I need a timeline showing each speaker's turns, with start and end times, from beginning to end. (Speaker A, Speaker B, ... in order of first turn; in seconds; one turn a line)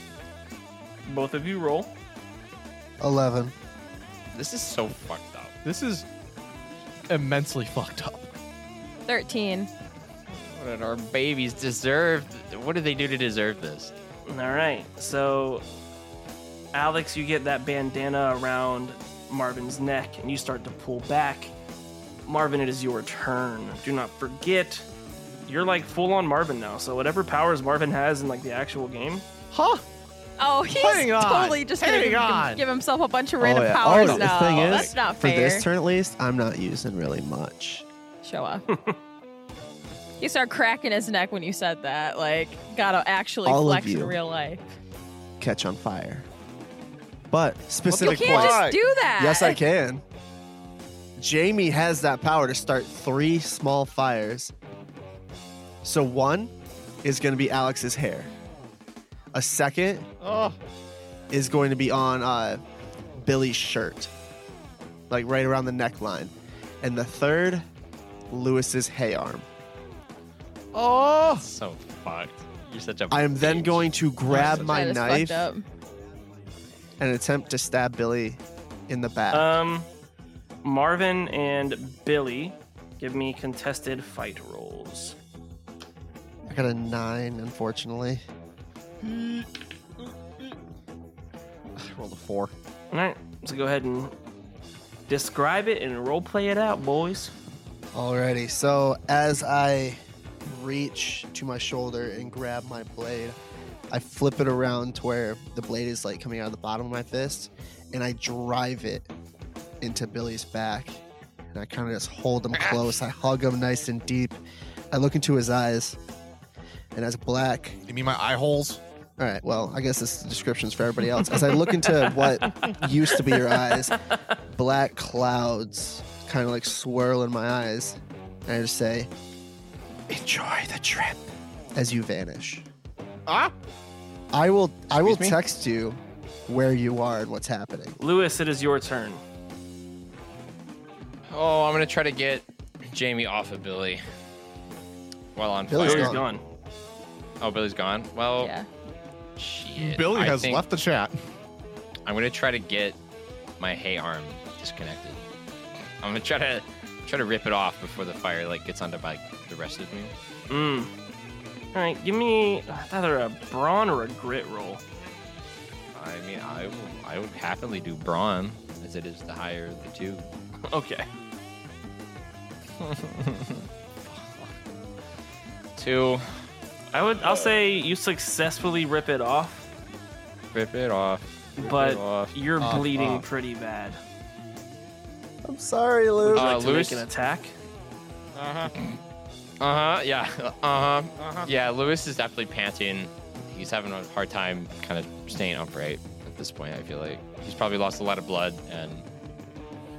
Speaker A: 1.1-1.9
Speaker B: 3.0-3.5
Speaker C: 4.3-5.5
Speaker D: 5.6-6.0
Speaker D: 7.1-8.3
Speaker E: 9.1-9.7
Speaker C: 10.3-13.9
Speaker A: 14.2-15.6
Speaker A: 16.7-21.5
Speaker A: 22.2-24.9
Speaker A: 25.5-29.2
Speaker D: 29.5-29.8
Speaker E: 30.4-35.7
Speaker D: 30.7-32.6
Speaker B: 33.4-37.8
Speaker C: 34.0-34.8
Speaker E: 38.2-38.7
Speaker A: 38.7-39.0
Speaker E: 40.2-44.6
Speaker B: 43.5-44.2
Speaker B: 45.4-46.3
Speaker B: 47.3-50.0
Speaker E: 47.9-49.6
Speaker D: 47.9-48.7
Speaker B: 51.2-54.5
Speaker B: 55.8-58.3
Speaker B: 59.3-60.1
Speaker D: 60.2-60.6
Speaker B: 61.3-62.6
Speaker B: 63.1-64.1
Speaker B: 65.1-67.6
Speaker B: 68.3-69.4
Speaker D: 70.7-71.4
Speaker C: 71.3-74.8
Speaker B: 73.1-75.5
Speaker E: 74.4-75.6
Speaker B: 77.0-79.6
Speaker A: 79.3-79.9
Speaker A: 80.6-85.1
Speaker B: 86.5-88.2
Speaker D: 89.0-89.5
Speaker D: 91.7-92.5
Speaker A: 92.9-94.1
Speaker A: 95.1-97.3
Speaker B: 97.9-103.3
Speaker B: 103.9-109.1
Speaker B: 109.8-111.0
Speaker B: 111.5-114.4
Speaker C: 112.5-112.9
Speaker B: 114.9-116.0
Speaker B: 116.9-117.8
Speaker D: 117.9-118.8
Speaker B: 119.2-124.0
Speaker A: 122.4-122.7
Speaker A: 123.3-123.6
Speaker B: 124.5-129.1
Speaker B: 130.1-132.7
Speaker D: 133.2-133.5
Speaker B: 134.3-138.0
Speaker C: 134.9-135.4
Speaker A: 138.0-139.2
Speaker C: 141.3-144.0
Speaker C: 145.3-146.2
Speaker B: 145.7-146.2
Speaker A: 145.8-146.4
Speaker C: 147.4-148.5
Speaker E: 148.4-148.7
Speaker C: 149.4-150.6
Speaker D: 149.8-151.1
Speaker C: 152.1-153.0
Speaker C: 153.6-155.2
Speaker C: 156.0-160.1
Speaker A: 160.5-160.9
Speaker A: 161.7-164.8
Speaker C: 165.9-170.3
Speaker A: 170.7-171.1
Speaker C: 172.8-174.5
Speaker C: 175.8-176.2
Speaker A: 176.9-179.7
Speaker C: 180.5-182.3
Speaker A: 181.6-184.0
Speaker D: 182.6-183.2
Speaker B: 185.4-186.5
Speaker A: 186.2-187.5
Speaker C: 186.3-187.1
Speaker D: 188.3-188.7
Speaker C: 189.6-199.1
Speaker D: 191.2-191.5